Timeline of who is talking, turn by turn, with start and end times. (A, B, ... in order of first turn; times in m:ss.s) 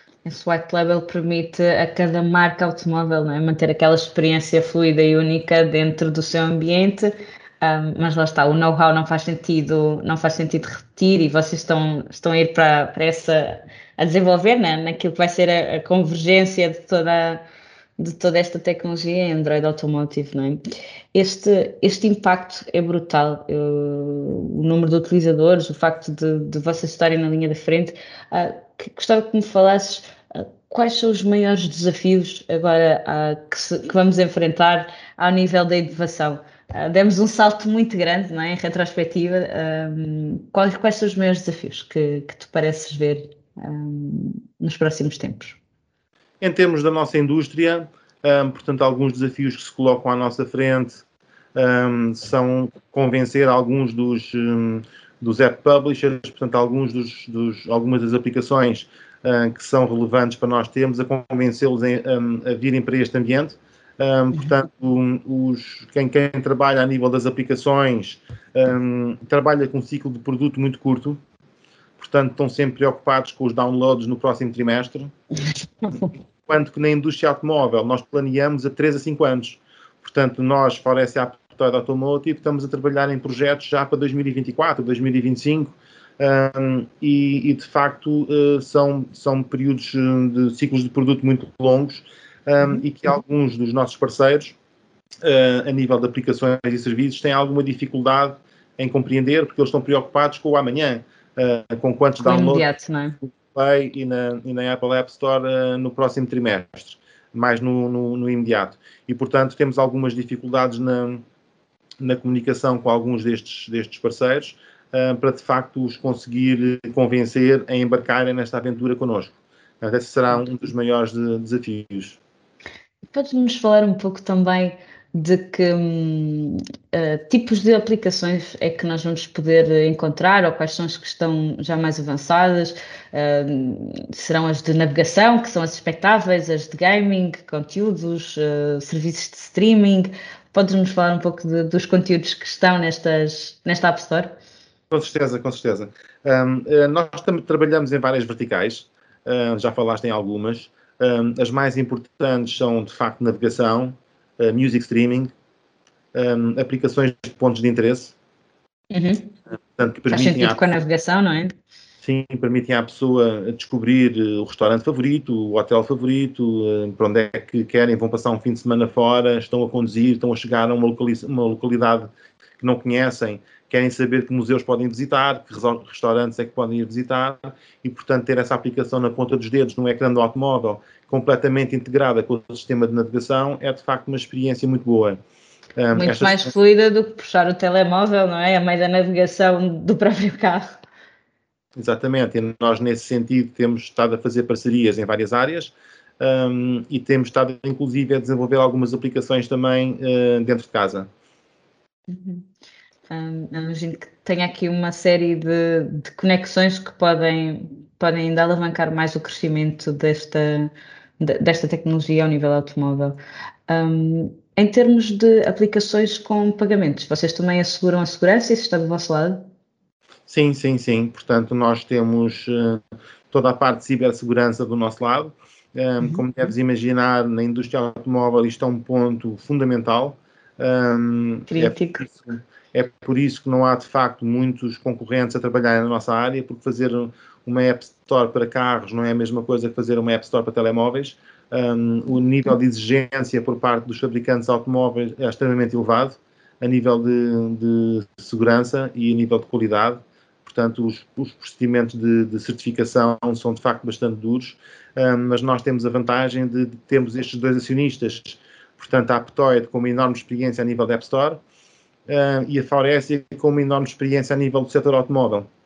0:00.2-0:07.1 A
0:07.6-0:17.4 A
0:18.0-0:20.6 A
0:21.1-0:45.6 A
0:46.4-0:51.0 B
0:51.6-1:11.2 B
1:12.0-1:15.1 B
1:15.8-1:16.1 A
1:16.5-1:34.6 B
1:32.6-1:33.1 A
1:35.2-1:42.7 B
1:42.2-1:43.2 A
1:43.2-1:51.2 B
1:52.0-2:02.2 B
2:03.1-2:24.3 A
2:24.9-2:35.3 B
2:36.1-2:38.2 B
2:38.9-2:39.3 A
2:39.8-2:40.6 B
2:40.1-2:41.5 A
2:42.0-3:05.2 B
3:05.8-3:06.5 B
3:05.9-3:10.8 A
3:11.8-3:21.1 B
3:22.1-3:22.5 A
3:23.1-3:33.2 A
3:33.7-3:39.4 A
3:40.3-4:21.4 B
3:46.0-3:46.3 A
3:51.5-3:52.0 A
4:22.1-4:25.5 B